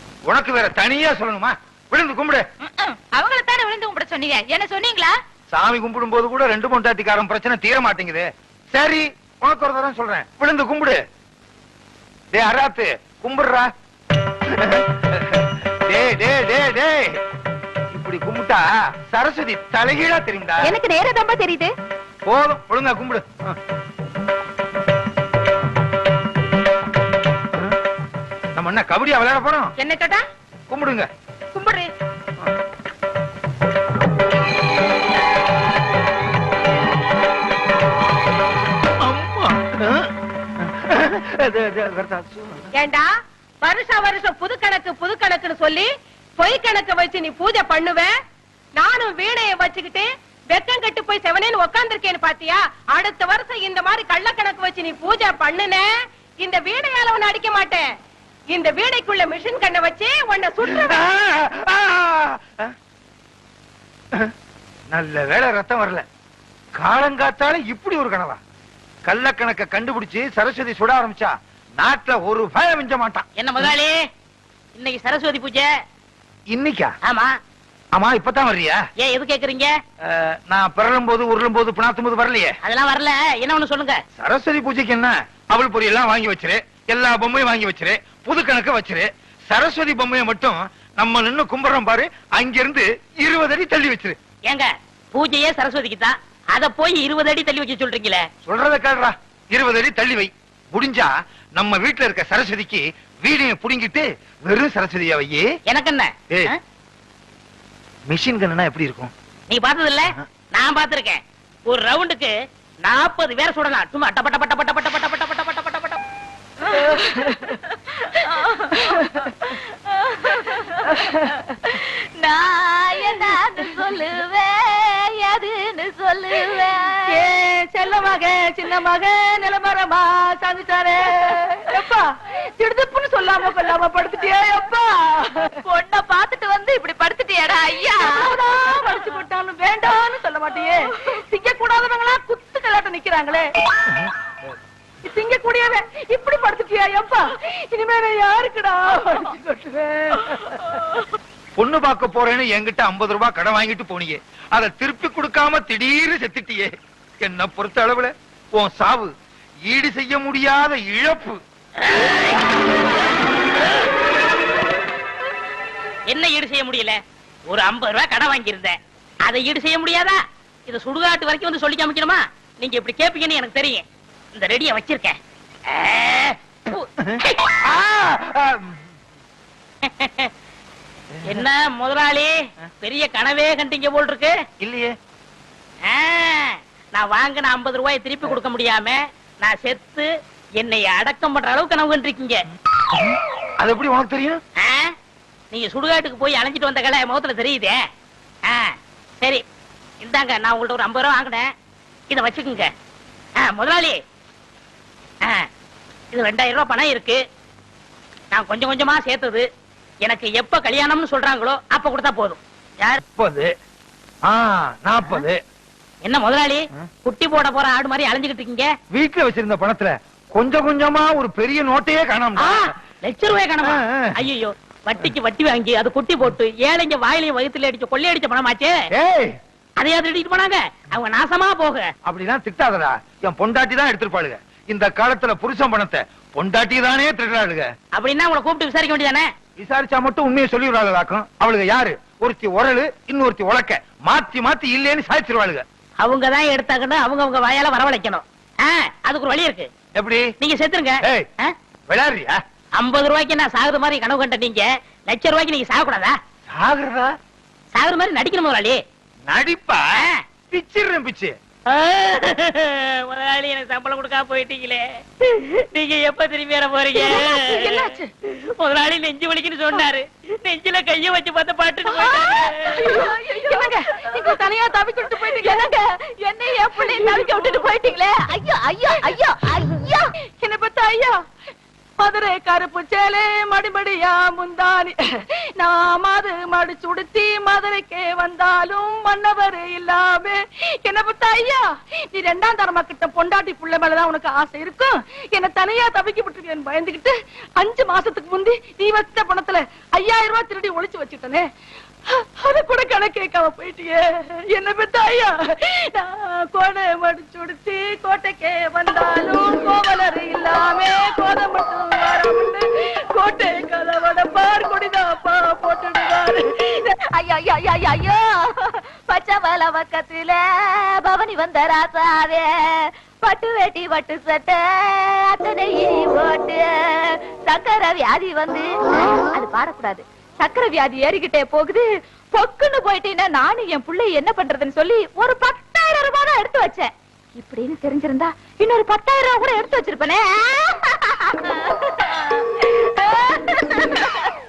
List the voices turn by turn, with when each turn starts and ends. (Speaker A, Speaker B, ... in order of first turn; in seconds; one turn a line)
Speaker A: 0.3-2.4
Speaker B: 2.6-5.1
Speaker A: 5.5-11.0
Speaker A: 12.3-13.7
Speaker A: 14.5-17.2
Speaker A: 17.9-20.8
Speaker B: 20.7-21.6
Speaker A: 22.2-23.6
Speaker A: 28.5-29.7
Speaker C: 29.8-30.2
Speaker A: 30.7-31.1
Speaker C: 31.5-31.9
Speaker A: 39.0-42.7
Speaker C: 42.7-43.1
Speaker C: 43.6-45.9
Speaker C: 46.4-48.1
Speaker C: 48.8-55.9
Speaker C: 56.4-57.9
Speaker C: 58.5-61.0
Speaker A: 60.7-62.7
Speaker A: 64.9-66.0
Speaker A: 66.8-68.4
Speaker A: 69.0-73.2
Speaker D: 73.4-73.9
Speaker D: 74.8-75.7
Speaker A: 76.5-76.9
Speaker A: 77.9-78.8
Speaker D: 79.0-79.7
Speaker A: 80.0-82.5
Speaker D: 82.6-84.0
Speaker A: 84.2-94.2
Speaker D: 94.5-98.2
Speaker A: 98.5-105.5
Speaker D: 105.7-106.5
Speaker A: 108.1-109.1
Speaker D: 109.5-112.3
Speaker D: 112.8-116.0
Speaker B: 116.6-127.0
Speaker C: 117.0-117.4
Speaker C: 127.1-135.6
Speaker B: 135.6-138.8
Speaker C: 138.0-143.4
Speaker C: 145.0-150.7
Speaker A: 151.6-159.1
Speaker A: 159.7-161.4
Speaker D: 161.8-162.4
Speaker D: 166.1-173.8
Speaker D: 174.3-175.2
Speaker D: 175.7-177.3
Speaker A: 177.0-178.8
Speaker D: 179.8-180.3
Speaker A: 181.1-181.4
Speaker D: 181.3-184.4
Speaker A: 184.6-184.9
Speaker D: 185.8-190.1
Speaker D: 190.6-192.4
Speaker A: 192.9-194.4
Speaker D: 194.6-194.9
Speaker D: 195.5-197.8
Speaker D: 198.5-199.4
Speaker D: 200.0-201.5
Speaker D: 202.1-202.7
Speaker D: 203.4-204.0
Speaker D: 206.1-207.2
Speaker D: 208.3-209.4
Speaker D: 210.0-213.0
Speaker A: 213.1-213.5
Speaker A: 214.2-215.4
Speaker D: 216.0-218.7
Speaker A: 218.9-222.7
Speaker D: 222.4-228.7
Speaker A: 223.6-224.1
Speaker A: 228.9-229.4
Speaker D: 229.8-231.9
Speaker A: 232.1-237.7
Speaker D: 237.9-239.3
Speaker A: 239.6-245.6
Speaker D: 246.0-249.7
Speaker A: 249.9-250.3
Speaker D: 250.4-251.5
Speaker A: 251.0-251.3
Speaker A: 251.9-252.4
Speaker D: 252.8-256.1
Speaker A: 256.5-257.1
Speaker D: 257.7-258.8
Speaker A: 259.3-259.8
Speaker A: 260.5-261.3
Speaker D: 261.7-272.8
Speaker C: 266.9-268.1
Speaker C: 271.9-275.7
Speaker B: 272.6-274.4
Speaker B: 275.2-280.1
Speaker C: 276.6-277.7
Speaker C: 280.4-281.2
Speaker C: 282.0-301.4
Speaker C: 302.1-316.7
Speaker B: 316.9-328.7
Speaker B: 329.3-331.8
Speaker B: 332.4-344.3